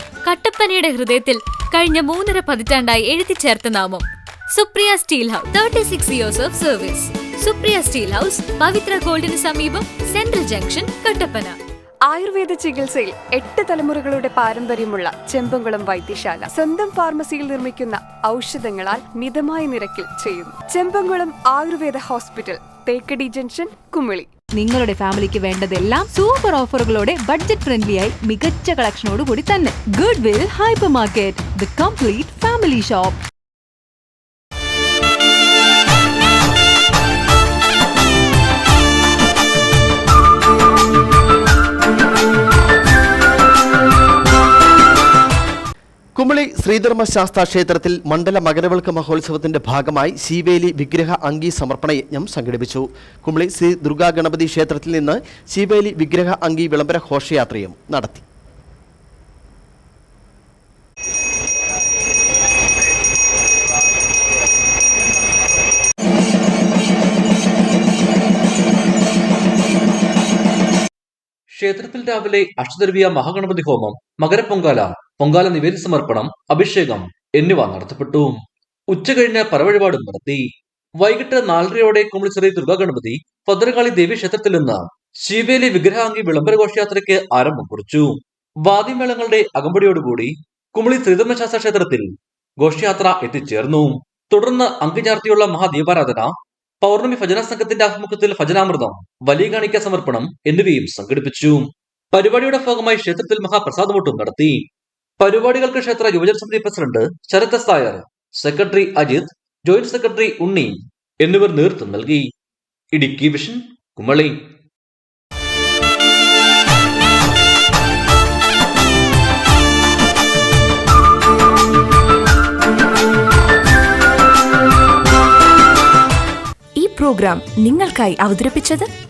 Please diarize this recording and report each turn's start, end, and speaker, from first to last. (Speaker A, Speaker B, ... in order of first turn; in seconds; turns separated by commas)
Speaker A: 0.2-11.6, Speaker B: 12.1-24.3, Speaker C: 24.6-33.2, Speaker D: 46.2-58.2, Speaker E: 71.5-78.4, Speaker E: 78.9-104.7, Speaker E: 105.2-112.3, Speaker E: 112.9-114.4, Speaker F: 126.8-128.9